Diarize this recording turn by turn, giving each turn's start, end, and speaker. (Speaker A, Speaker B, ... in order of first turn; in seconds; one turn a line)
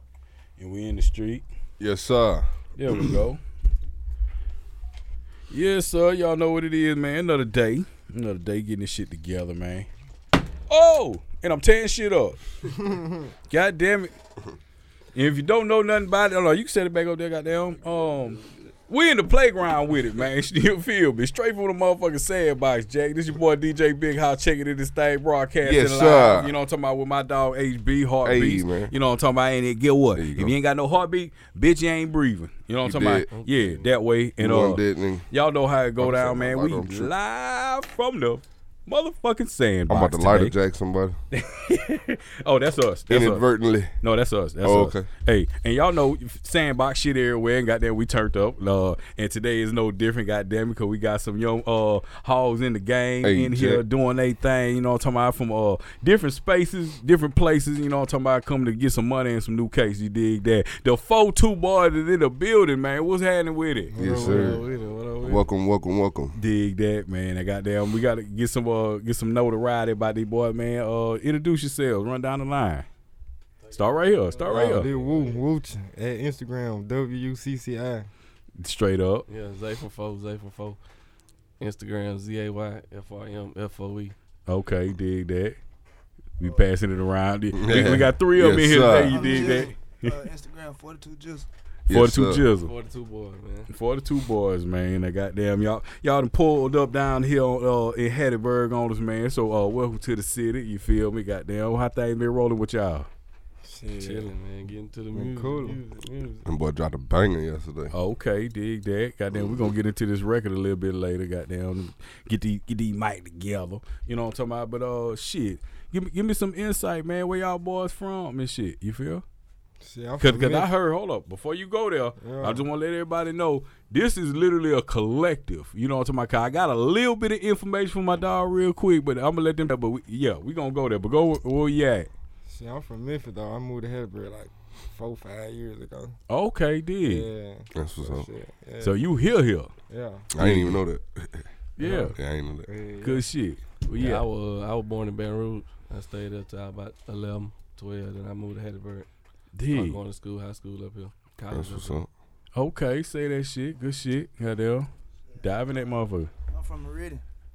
Speaker A: 0.6-1.4
Speaker B: 1.8-3.2
Speaker A: 2.8-3.4
Speaker A: 5.5-9.9
Speaker A: 10.7-12.4
Speaker C: 12.9-13.2
Speaker A: 13.5-14.1
Speaker A: 15.1-40.5
Speaker B: 25.6-26.5
Speaker B: 28.2-28.9
Speaker B: 30.1-30.5
Speaker B: 32.8-33.3
Speaker D: 33.3-33.9
Speaker B: 34.4-35.3
Speaker B: 36.0-37.1
Speaker B: 39.9-41.2
Speaker A: 41.3-43.5
Speaker B: 43.1-44.0
Speaker A: 44.0-64.0
Speaker B: 44.6-45.1
Speaker B: 53.2-53.8
Speaker C: 63.9-64.6
Speaker B: 63.9-64.6
Speaker D: 64.1-65.5
Speaker B: 65.2-66.4
Speaker A: 66.3-72.8
Speaker D: 73.6-75.5
Speaker A: 73.7-74.9
Speaker C: 74.5-78.1
Speaker A: 78.6-79.3
Speaker D: 79.3-80.8
Speaker D: 81.6-84.1
Speaker A: 84.5-85.6
Speaker A: 86.4-90.3
Speaker B: 87.5-89.4
Speaker E: 89.1-91.5
Speaker B: 91.9-92.5
Speaker A: 91.9-92.7
Speaker D: 92.6-93.7
Speaker A: 93.7-103.1
Speaker C: 103.6-104.3
Speaker D: 104.0-106.5
Speaker C: 105.1-105.8
Speaker B: 106.4-107.9
Speaker A: 107.9-119.2
Speaker B: 109.3-109.7
Speaker C: 119.8-120.7
Speaker A: 120.2-132.1
Speaker C: 122.2-122.6
Speaker C: 132.4-136.2
Speaker A: 136.3-137.3
Speaker C: 137.0-139.0
Speaker B: 137.7-138.3
Speaker A: 138.8-139.7
Speaker C: 139.9-140.3
Speaker B: 140.3-141.5
Speaker A: 140.3-140.8
Speaker A: 141.8-142.1
Speaker D: 141.8-142.1
Speaker B: 142.1-142.7
Speaker C: 142.7-143.2
Speaker A: 143.0-144.2
Speaker D: 143.9-149.1
Speaker A: 149.5-150.0
Speaker D: 149.6-152.0
Speaker B: 151.5-152.1
Speaker A: 152.5-156.3
Speaker E: 156.5-157.2